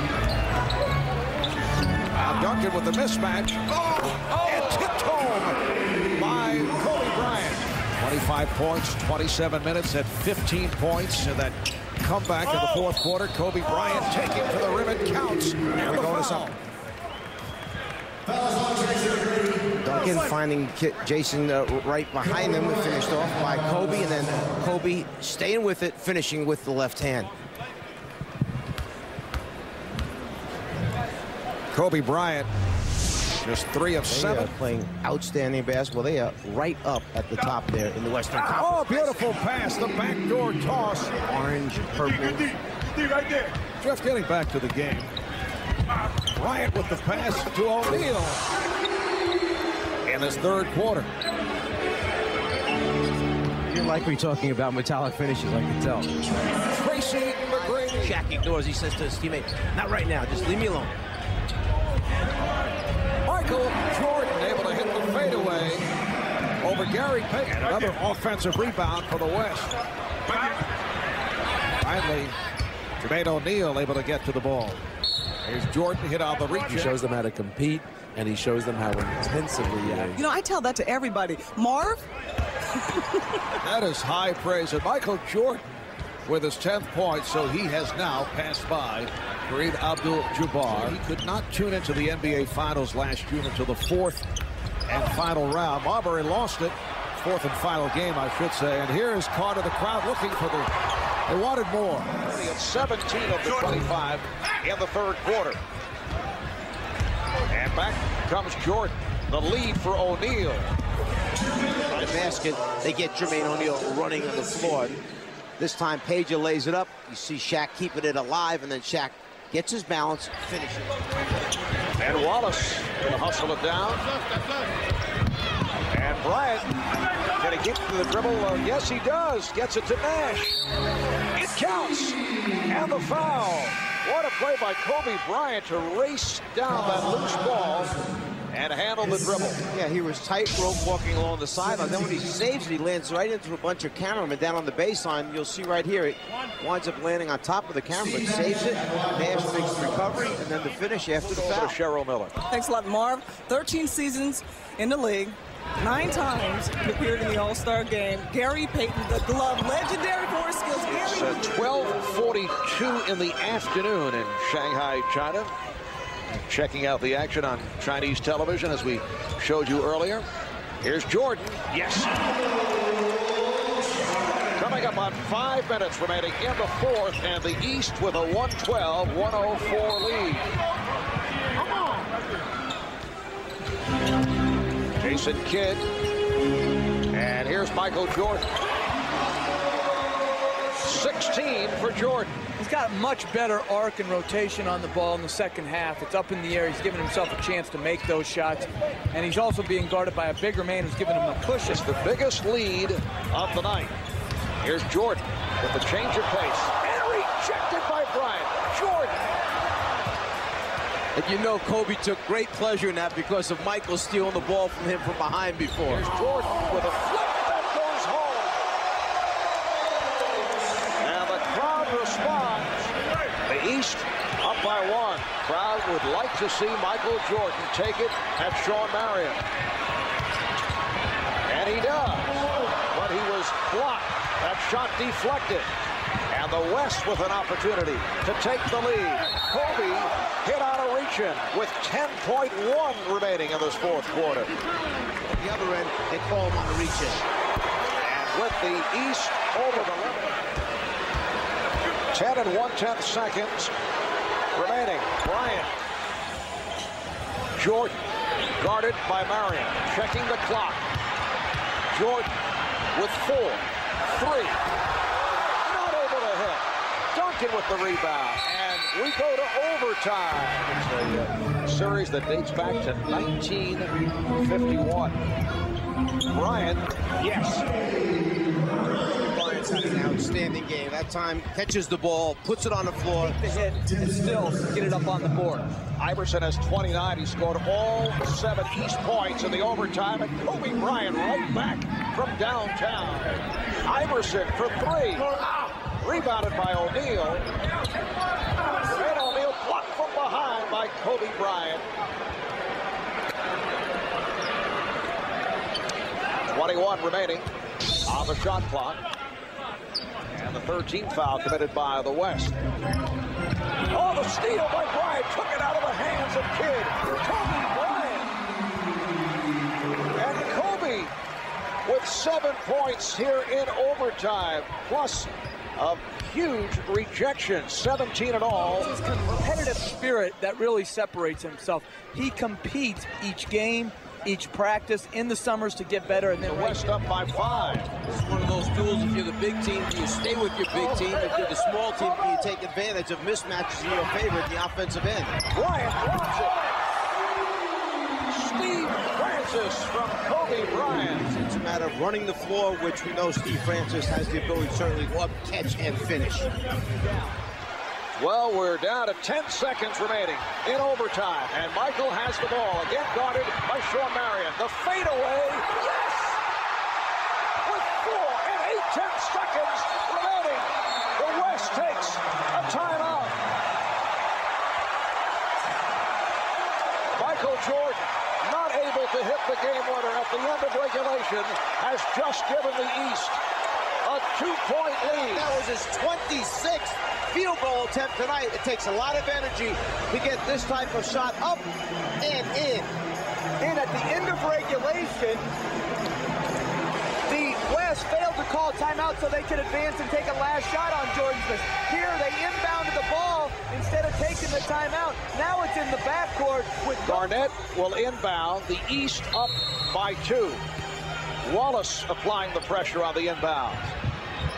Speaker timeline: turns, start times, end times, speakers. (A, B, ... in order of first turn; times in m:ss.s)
0:02.1-0:05.6 A
0:06.2-0:16.6 A
0:15.8-0:16.5 B
0:19.8-0:27.3 B
0:31.7-0:32.5 A
0:33.4-0:34.5 A
0:34.0-0:39.2 B
0:38.4-0:41.1 A
0:41.2-0:42.6 B
0:43.8-0:45.1 A
0:46.4-0:48.4 A
0:50.1-0:51.1 A
0:53.7-0:56.1 B
0:56.7-0:58.2 A
0:57.5-1:00.9 B
1:03.2-1:05.9 A
1:06.6-1:09.7 A
1:11.8-1:12.4 A
1:13.0-1:14.8 A
1:15.4-1:16.9 A
1:16.7-1:20.3 C
1:20.1-1:22.0 D
1:22.9-1:23.4 D
1:23.6-1:25.6 A
1:26.3-1:34.2 A
1:34.9-1:40.7 A
1:41.3-1:45.6 A
1:47.5-1:50.7 A
1:51.9-1:55.0 B
1:55.6-2:00.9 B
2:02.0-2:04.1 A
2:05.9-2:06.7 A
2:07.4-2:10.6 A
2:11.3-2:18.0 A
2:18.5-2:19.6 A
2:19.7-2:31.8 B
2:31.2-2:32.4 A
2:32.5-2:41.4 D
2:40.8-2:45.5 A
2:46.4-2:50.2 A
2:50.8-2:52.1 A
2:54.6-3:00.5 A
3:05.0-3:05.8 A
3:07.1-3:08.4 A
3:10.8-3:12.3 A
3:12.6-3:21.8 E
3:21.7-3:24.0 A
3:24.6-3:29.2 A
3:31.2-3:36.0 B
3:35.9-3:38.6 A
3:41.0-3:42.9 A
3:43.5-3:49.4 A
3:51.5-3:55.7 A
3:56.3-4:04.5 A
4:05.4-4:07.2 B
4:08.0-4:10.4 A
4:12.1-4:13.7 A
4:14.5-4:15.7 A
4:17.6-4:18.0 A
4:18.6-4:20.8 A
4:21.9-4:22.3 A
4:23.0-4:24.6 A
4:25.6-4:35.2 A
4:36.3-4:37.6 A
4:39.0-4:43.5 B
4:43.2-4:45.7 E
4:46.0-4:55.3 A
4:56.0-4:57.5 A
4:58.8-5:01.8 A
5:06.5-5:07.5 A
5:08.1-5:09.0 A
5:10.3-5:12.6 A
5:13.9-5:18.3 A
5:20.2-5:21.1 A
5:21.8-5:28.9 A
5:28.8-5:36.8 E
5:36.5-5:38.0 A
5:38.0-5:45.4 B
5:45.5-5:46.8 A
5:48.3-5:51.3 A
5:51.2-5:56.5 B
5:58.2-6:06.4 A
6:07.6-6:13.4 A
6:17.2-6:23.4 A
6:24.0-6:25.5 A
6:25.1-6:31.7 B
6:32.2-6:32.9 B
6:33.6-6:35.5 E
6:37.3-6:47.3 E
6:47.0-6:50.6 A
6:51.4-6:53.9 A